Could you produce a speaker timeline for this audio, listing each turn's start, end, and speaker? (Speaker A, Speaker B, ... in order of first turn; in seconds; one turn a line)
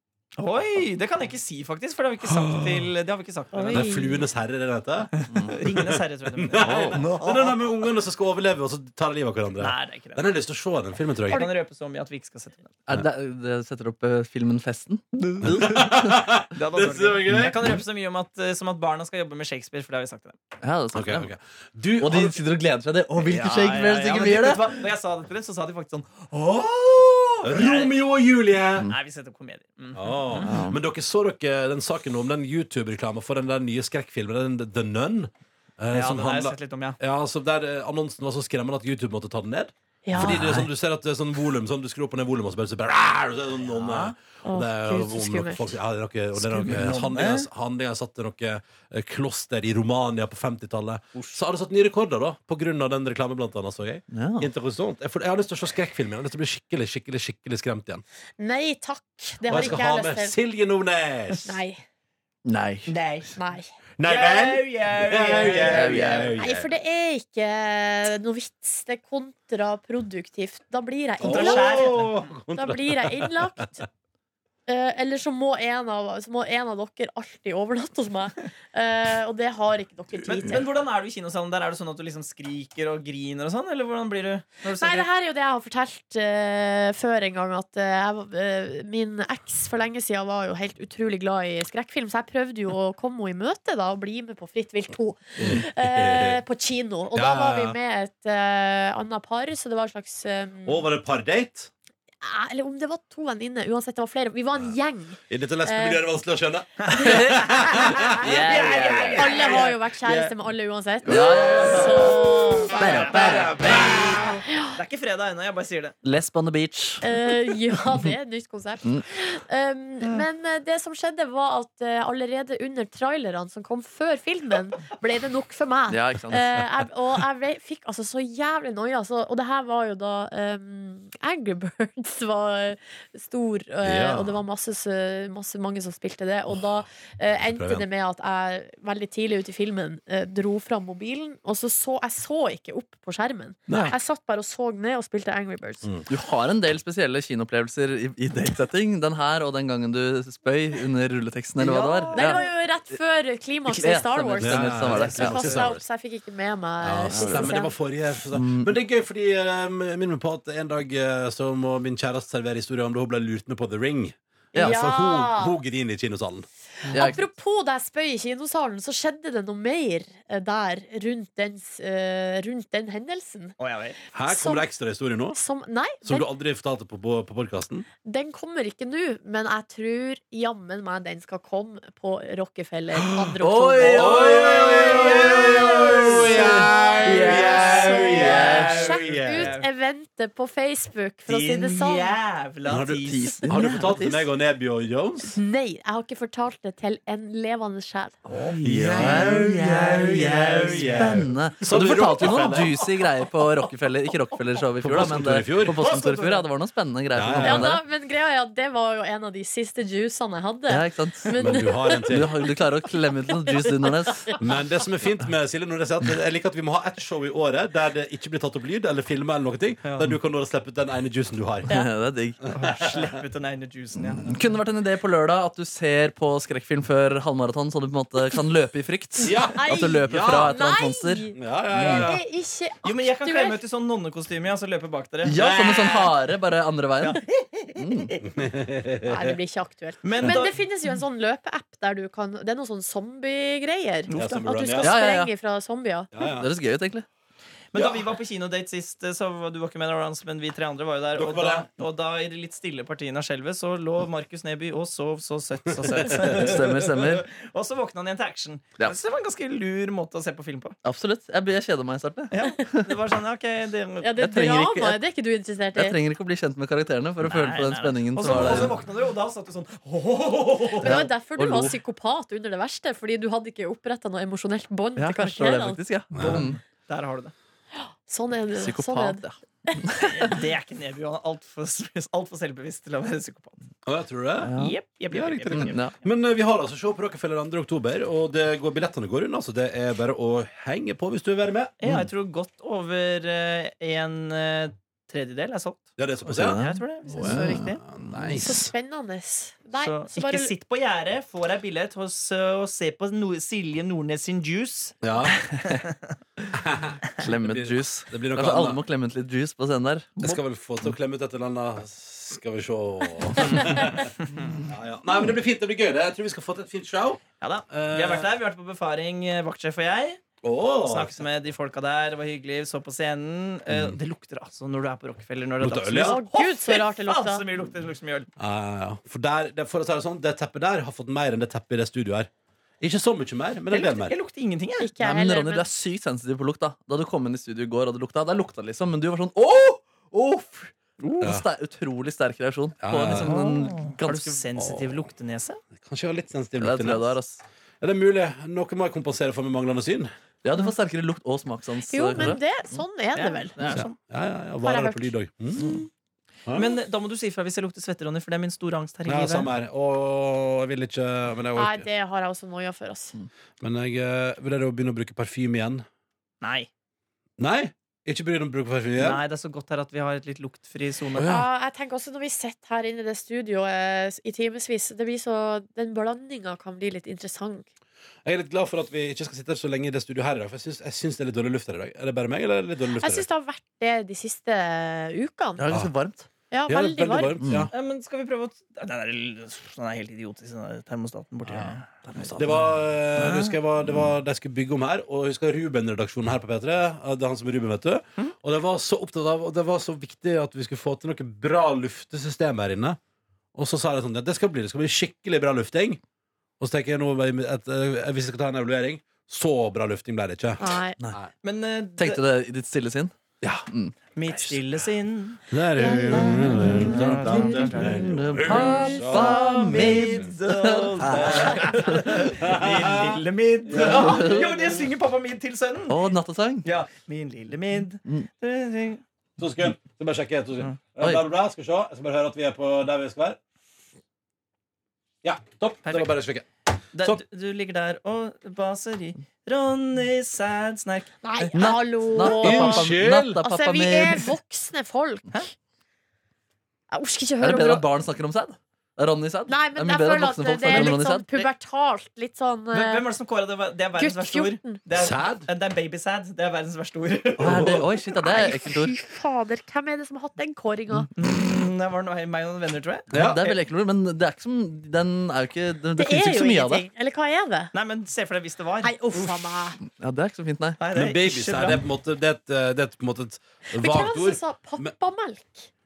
Speaker A: 0.4-3.9
Speaker B: 2.3-2.8
Speaker C: 3.5-4.2
Speaker B: 3.7-5.1
Speaker D: 5.3-5.6
Speaker A: 5.3-7.6
Speaker B: 5.7-11.4
Speaker A: 9.6-10.2
Speaker A: 11.3-12.8
Speaker D: 12.9-16.2
Speaker B: 15.4-17.6
Speaker A: 16.5-20.4
Speaker D: 20.6-21.3
Speaker B: 20.9-22.4
Speaker D: 22.0-24.7
Speaker A: 23.2-27.9
Speaker B: 27.4-28.9
Speaker A: 28.8-30.5
Speaker B: 29.9-58.0
Speaker D: 30.3-30.8
Speaker A: 35.9-37.0
Speaker C: 40.0-40.4
Speaker D: 40.1-40.7
Speaker A: 43.7-44.1
Speaker C: 44.4-45.8
Speaker D: 46.5-47.0
Speaker A: 46.6-47.5
Speaker D: 54.1-54.5
Speaker C: 58.4-60.3
Speaker B: 59.4-61.6
Speaker C: 61.4-61.8
Speaker D: 62.4-62.9
Speaker A: 62.9-63.3
Speaker C: 63.4-63.7
Speaker B: 64.0-66.7
Speaker A: 64.0-66.3
Speaker D: 65.6-66.3
Speaker C: 66.3-71.9
Speaker B: 71.2-73.7
Speaker A: 71.2-72.1
Speaker C: 72.5-73.8
Speaker C: 74.7-80.7
Speaker A: 80.3-85.1
Speaker C: 84.8-100.8
Speaker B: 95.4-96.4
Speaker B: 97.1-97.8
Speaker B: 100.7-101.7
Speaker C: 102.2-106.1
Speaker B: 105.3-108.4
Speaker A: 106.9-107.6
Speaker C: 106.9-113.0
Speaker D: 107.0-109.4
Speaker A: 108.4-110.3
Speaker D: 111.0-112.1
Speaker A: 111.5-112.0
Speaker A: 112.6-113.9
Speaker D: 112.7-113.9
Speaker B: 112.9-114.4
Speaker C: 114.5-114.8
Speaker A: 114.7-116.0
Speaker D: 116.0-117.1
Speaker C: 117.0-145.9
Speaker D: 125.9-126.5
Speaker B: 133.8-134.4
Speaker B: 137.5-137.9
Speaker D: 143.7-143.9
Speaker D: 146.1-152.4
Speaker A: 151.6-152.4
Speaker C: 152.1-157.8
Speaker D: 153.7-155.8
Speaker B: 154.4-155.8
Speaker A: 154.9-155.4
Speaker B: 156.8-166.5
Speaker D: 157.1-157.5
Speaker D: 158.3-158.7
Speaker C: 164.6-165.5
Speaker D: 166.9-167.3
Speaker C: 166.9-173.6
Speaker A: 173.6-174.0
Speaker B: 174.1-175.4
Speaker C: 174.2-174.7
Speaker C: 175.3-176.3
Speaker B: 176.0-177.8
Speaker C: 178.0-192.1
Speaker D: 183.4-188.7
Speaker A: 183.8-186.2
Speaker B: 183.9-189.5
Speaker A: 187.2-189.7
Speaker A: 191.2-193.9
Speaker B: 192.7-195.4
Speaker D: 193.1-194.3
Speaker C: 195.3-198.2
Speaker B: 198.6-202.7
Speaker D: 198.6-199.9
Speaker A: 198.9-201.2
Speaker D: 200.9-207.8
Speaker B: 204.8-205.8
Speaker A: 205.7-206.4
Speaker B: 207.1-207.7
Speaker C: 207.4-212.2
Speaker D: 210.7-214.3
Speaker B: 211.3-212.3
Speaker C: 213.3-214.3
Speaker B: 214.4-221.7
Speaker A: 219.8-220.2
Speaker D: 221.7-222.4
Speaker A: 222.5-224.3
Speaker D: 224.2-232.1
Speaker C: 229.2-233.6
Speaker B: 229.2-230.5
Speaker B: 231.3-232.2
Speaker A: 232.8-236.1
Speaker D: 235.2-237.2
Speaker B: 235.3-236.0
Speaker A: 237.0-237.5
Speaker D: 237.7-238.1
Speaker B: 238.2-239.3
Speaker C: 239.0-246.1
Speaker A: 240.0-240.6
Speaker A: 244.1-244.5
Speaker B: 244.1-244.9
Speaker D: 244.8-245.3
Speaker B: 246.1-246.5
Speaker D: 246.3-247.0
Speaker A: 247.7-260.8
Speaker B: 247.7-248.0
Speaker B: 251.1-251.7
Speaker B: 255.9-256.2
Speaker D: 256.3-257.3
Speaker D: 260.8-262.9
Speaker A: 262.3-264.3
Speaker C: 264.0-266.0
Speaker D: 264.2-265.0
Speaker D: 265.7-268.8
Speaker A: 267.2-271.1
Speaker B: 268.3-268.7
Speaker C: 270.8-275.8
Speaker D: 270.8-271.8
Speaker D: 275.0-276.6
Speaker B: 276.1-276.4
Speaker A: 276.2-277.3
Speaker C: 277.8-280.3
Speaker D: 278.5-279.4
Speaker A: 280.0-283.6
Speaker B: 283.8-284.5
Speaker D: 284.4-284.8
Speaker A: 284.5-285.9
Speaker B: 285.1-291.7
Speaker D: 285.5-285.9
Speaker A: 291.8-295.9
Speaker D: 291.8-292.1
Speaker B: 296.0-296.6
Speaker D: 296.3-298.2
Speaker A: 296.5-297.8
Speaker B: 297.1-298.7
Speaker C: 298.3-300.5
Speaker A: 299.8-306.1
Speaker B: 305.0-305.4
Speaker B: 306.5-308.8
Speaker D: 307.2-310.3
Speaker B: 310.2-314.1
Speaker A: 313.4-313.7
Speaker B: 314.6-318.3
Speaker A: 317.4-320.2
Speaker B: 320.4-321.1
Speaker A: 320.8-328.3
Speaker B: 323.7-324.0
Speaker B: 325.6-326.2
Speaker C: 326.0-327.4
Speaker B: 328.4-332.3
Speaker B: 332.8-334.1
Speaker A: 333.7-334.9
Speaker C: 334.8-335.7
Speaker D: 335.0-344.4
Speaker B: 341.2-341.4
Speaker B: 342.8-343.4
Speaker A: 343.2-345.6
Speaker B: 344.6-345.0
Speaker B: 345.8-347.1
Speaker D: 346.6-347.4
Speaker B: 347.8-350.1
Speaker D: 350.4-352.8
Speaker C: 351.9-353.6
Speaker A: 353.1-353.9
Speaker D: 353.6-353.9
Speaker B: 353.7-355.8
Speaker C: 354.6-355.7
Speaker B: 356.4-356.7
Speaker A: 356.5-359.5
Speaker B: 359.1-361.9
Speaker C: 361.5-363.1
Speaker B: 363.6-365.9
Speaker A: 366.4-366.7
Speaker B: 367.4-369.2
Speaker A: 369.0-371.4
Speaker B: 371.1-371.5
Speaker C: 371.2-377.7
Speaker B: 378.2-383.2
Speaker C: 382.9-385.6
Speaker D: 385.6-386.3
Speaker C: 386.5-387.4
Speaker B: 386.7-387.7
Speaker D: 387.4-387.7
Speaker A: 387.7-391.9
Speaker D: 391.5-393.6
Speaker B: 392.4-403.0
Speaker B: 403.5-406.0
Speaker B: 406.6-411.3
Speaker C: 410.6-411.0
Speaker A: 411.4-412.2
Speaker D: 412.0-413.1
Speaker D: 413.7-414.0
Speaker A: 414.1-415.4
Speaker B: 415.5-420.3
Speaker D: 415.9-422.2
Speaker C: 416.2-416.6
Speaker A: 416.5-418.1
Speaker A: 418.7-426.0
Speaker B: 421.0-424.4
Speaker D: 424.0-424.6
Speaker D: 425.9-426.7
Speaker A: 426.6-429.0
Speaker B: 429.4-433.4
Speaker B: 435.2-436.4
Speaker A: 435.8-436.1
Speaker A: 436.9-441.5
Speaker C: 441.2-445.4
Speaker D: 441.5-444.2
Speaker B: 442.2-443.4
Speaker C: 446.9-447.9
Speaker D: 447.4-451.5
Speaker C: 449.5-453.1
Speaker A: 452.7-457.6
Speaker C: 454.0-454.8
Speaker B: 454.9-455.5
Speaker B: 457.4-457.9
Speaker D: 457.4-458.9
Speaker C: 458.2-461.1
Speaker A: 461.1-463.6
Speaker B: 463.1-463.4
Speaker D: 463.1-466.8
Speaker C: 465.9-467.7
Speaker A: 467.7-469.5
Speaker C: 468.8-469.8
Speaker D: 469.8-470.8
Speaker A: 470.8-471.8
Speaker B: 470.9-474.9
Speaker C: 473.7-475.7